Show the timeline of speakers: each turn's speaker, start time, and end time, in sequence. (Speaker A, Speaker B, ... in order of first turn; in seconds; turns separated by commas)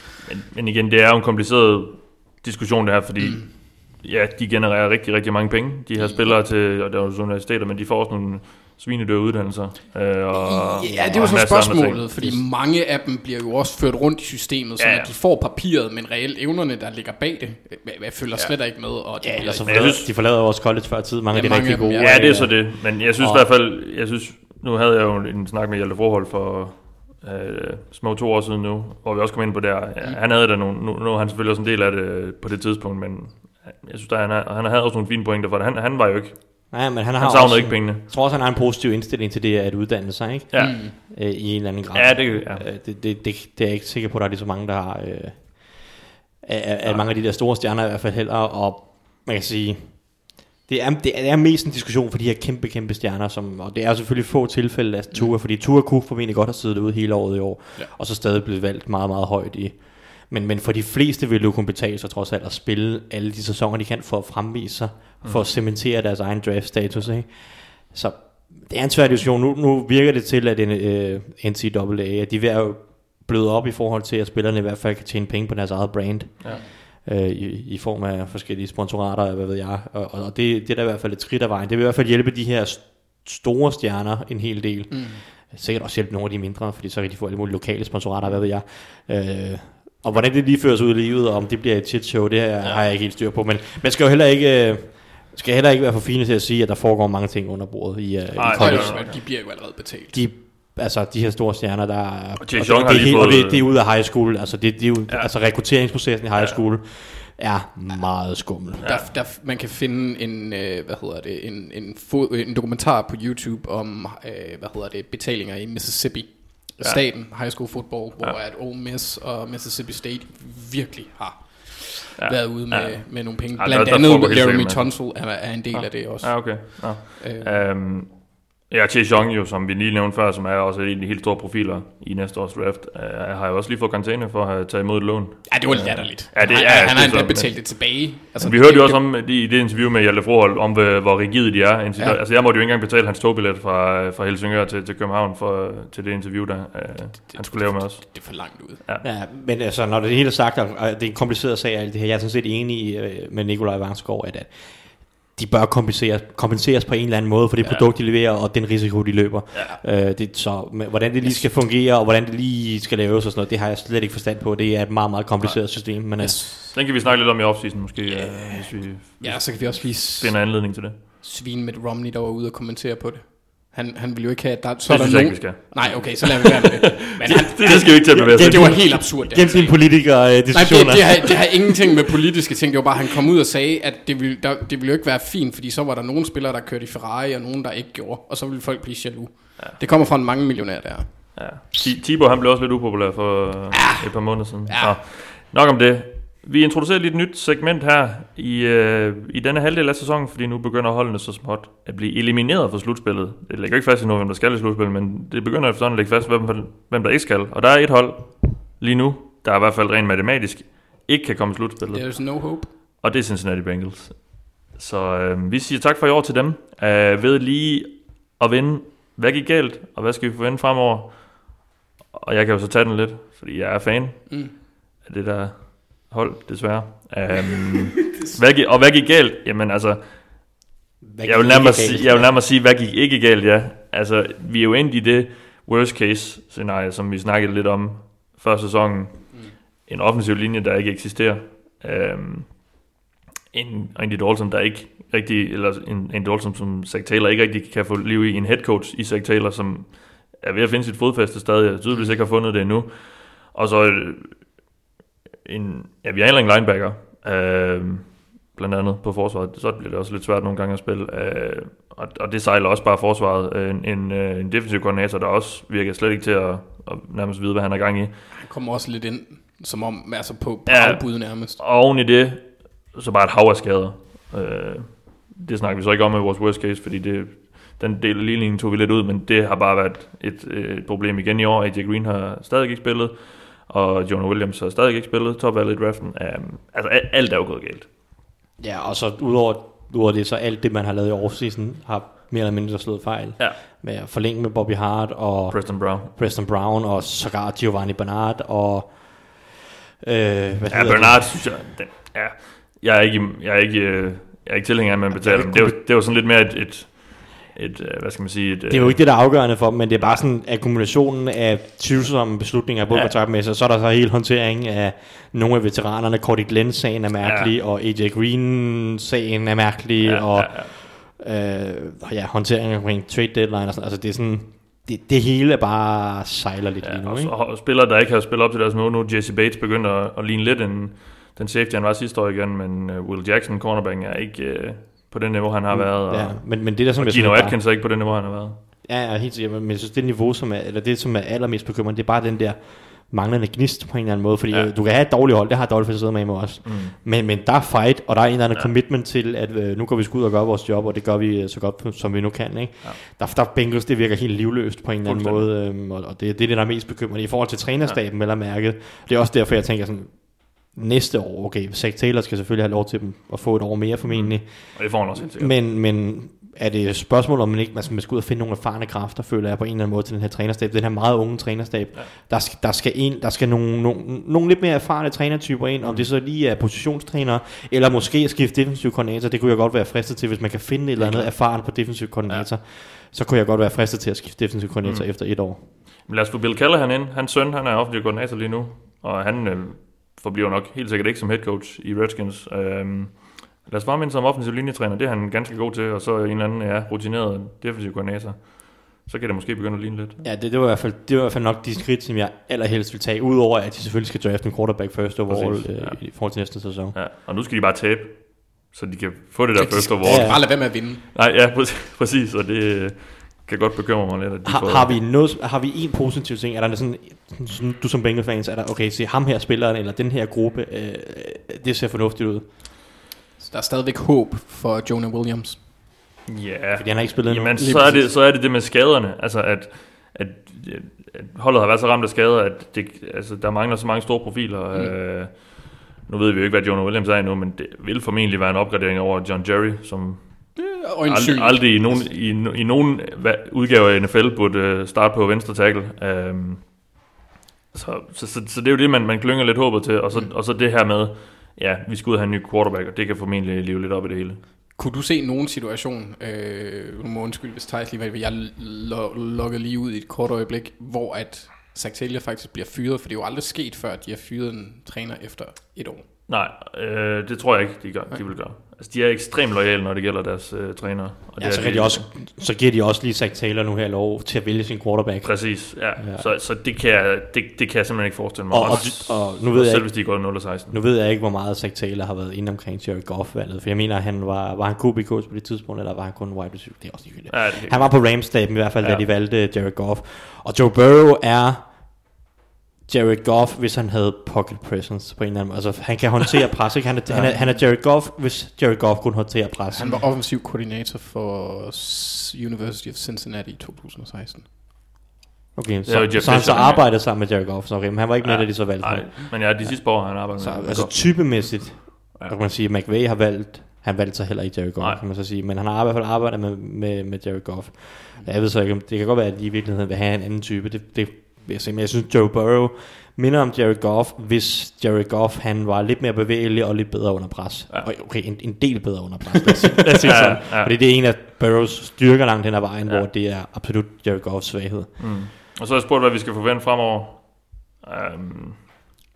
Speaker A: 0.2-12.3, Speaker B: 3.2-3.5, Speaker B: 6.0-6.3, Speaker B: 10.3-19.9, Speaker C: 10.8-11.5, Speaker A: 14.8-15.1, Speaker C: 18.9-23.5, Speaker A: 19.6-20.1, Speaker B: 21.3-22.5, Speaker A: 22.0-38.0, Speaker C: 36.7-99.6, Speaker A: 40.5-41.0, Speaker B: 40.5-40.9, Speaker A: 41.9-42.6, Speaker B: 55.1-55.4, Speaker A: 65.2-65.5, Speaker B: 84.9-85.2, Speaker A: 98.3-99.2, Speaker B: 98.5-100.2, Speaker C: 100.1-108.9, Speaker A: 102.4-103.7, Speaker A: 106.3-106.6, Speaker B: 108.8-127.6, Speaker A: 116.8-117.7, Speaker A: 122.2-149.0, Speaker B: 135.5-139.0, Speaker B: 147.3-148.8, Speaker C: 149.0-166.4, Speaker B: 161.2-161.5, Speaker A: 165.4-171.0, Speaker B: 166.2-167.2, Speaker B: 168.0-191.6, Speaker A: 174.9-179.1, Speaker C: 177.6-181.7, Speaker A: 191.3-230.6, Speaker B: 193.7-195.0, Speaker B: 211.9-212.7, Speaker C: 231.0-232.3, Speaker A: 231.2-242.8, Speaker A: 243.5-254.6, Speaker A: 255.4-268.3, Speaker B: 268.3-271.6, Speaker A: 270.6-287.9, Speaker C: 288.6-299.5, Speaker A: 295.5-296.1, Speaker C: 300.0-301.6, Speaker A: 300.7-310.2, Speaker C: 305.1-305.8, Speaker C: 308.7-327.3, Speaker A: 312.9-313.1, Speaker A: 317.2-317.5, Speaker A: 320.0-320.7, Speaker A: 326.8-338.6, Speaker C: 335.7-337.6, Speaker C: 338.8-385.6, Speaker A: 346.6-346.9, Speaker A: 355.0-355.5, Speaker A: 364.1-365.6, Speaker A: 375.8-376.1, Speaker A: 381.0-382.5, Speaker A: 384.8-400.2, Speaker C: 400.2-407.0, Speaker A: 405.3-415.0, Speaker B: 409.5-411.0, Speaker C: 410.0-410.4, Speaker C: 414.4-422.6, Speaker B: 423.4-425.6, Speaker A: 426.3-446.9, Speaker C: 426.7-428.1, Speaker B: 427.6-428.1, Speaker B: 440.6-442.1, Speaker A: 447.7-454.4, Speaker B: 454.7-466.0, Speaker A: 466.3-472.1, Speaker C: 471.4-476.3, Speaker A: 475.2-480.8, Speaker C: 478.5-492.1, Speaker A: 487.3-489.1, Speaker C: 492.9-500.0, Speaker A: 497.1-497.5, Speaker B: 497.3-497.6, Speaker B: 499.7-504.5, Speaker C: 505.6-535.3, Speaker A: 505.9-507.4, Speaker A: 508.2-512.4, Speaker A: 529.8-530.8, Speaker A: 535.0-538.8